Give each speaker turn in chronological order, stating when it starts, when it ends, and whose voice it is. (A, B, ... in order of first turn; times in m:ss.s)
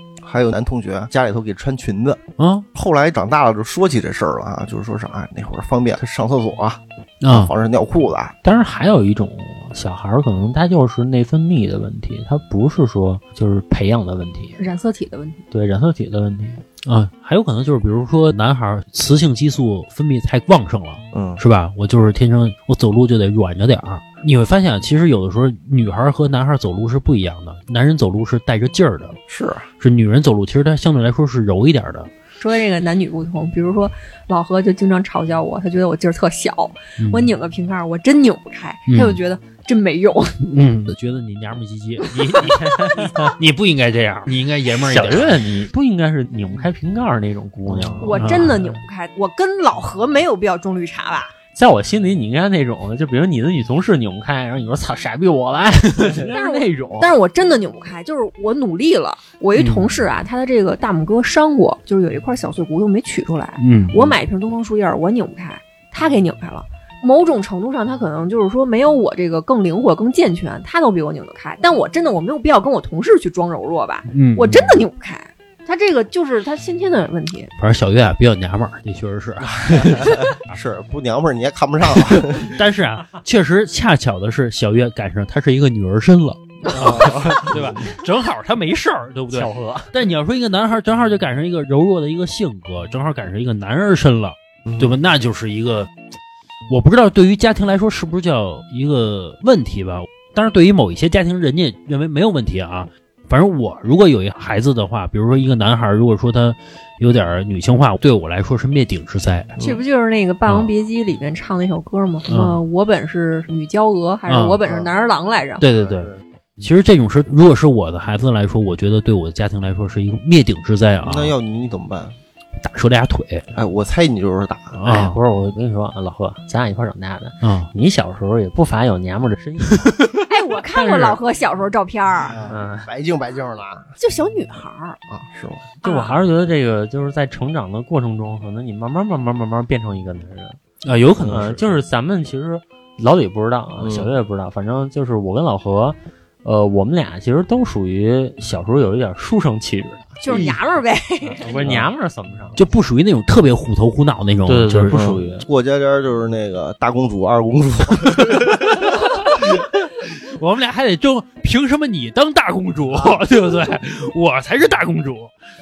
0:00.2-0:02.2 A
0:02.4-0:02.7 B
0:02.7-0:08.3 A
0:07.2-0:07.5 B
0:08.4-0:14.6 C
0:14.6-0:15.4 D
0:15.5-0:16.6 C
0:16.8-0:29.2 B
0:21.1-0:21.4 A
0:29.3-0:29.7 A
0:29.8-0:32.1 B
0:32.4-0:40.4 D
0:37.0-0:37.3 B
0:38.9-0:39.2 B
0:40.4-0:45.5 B
0:42.2-0:42.9 D
0:44.8-0:48.7 C
0:47.7-0:48.6 B
0:48.0-0:51.3 D
0:51.5-0:57.1 C
0:56.3-1:17.5 D
0:59.6-1:00.0 B
1:03.6-1:04.2 B
1:14.1-1:14.9 B
1:17.6-1:20.6 B
1:19.6-1:22.5 A
1:22.2-1:35.9 B
1:26.7-1:27.8 A
1:29.3-1:29.9 C
1:34.7-1:35.0 A
1:36.7-1:49.6 B
1:49.6-1:55.6 D
1:50.5-1:50.7 B
1:52.3-1:52.6 B
1:54.3-1:54.6 B
1:54.6-1:54.9 A
1:55.6-2:01.4 B
1:55.8-1:56.2 A
2:01.0-2:02.2 A
2:02.6-2:03.5 B
2:03.6-2:04.9 A
2:04.8-2:05.2 B
2:04.9-2:10.0 C
2:07.4-2:07.7 B
2:09.7-2:10.1 B
2:10.3-2:12.4 D
2:10.7-2:11.2 C
2:12.2-2:14.0 A
2:12.5-2:12.9 C
2:14.0-2:15.0 D
2:15.1-2:15.7 A
2:15.8-2:16.2 D
2:15.8-2:20.6 C
2:20.8-2:21.8 B
2:21.3-2:30.5 C
2:23.8-2:24.1 A
2:30.2-2:31.6 D
2:31.4-2:32.6 C
2:32.6-2:35.2 B
2:34.5-2:35.5 C
2:34.9-2:39.6 A
2:38.3-2:45.3 B
2:42.9-2:43.2 A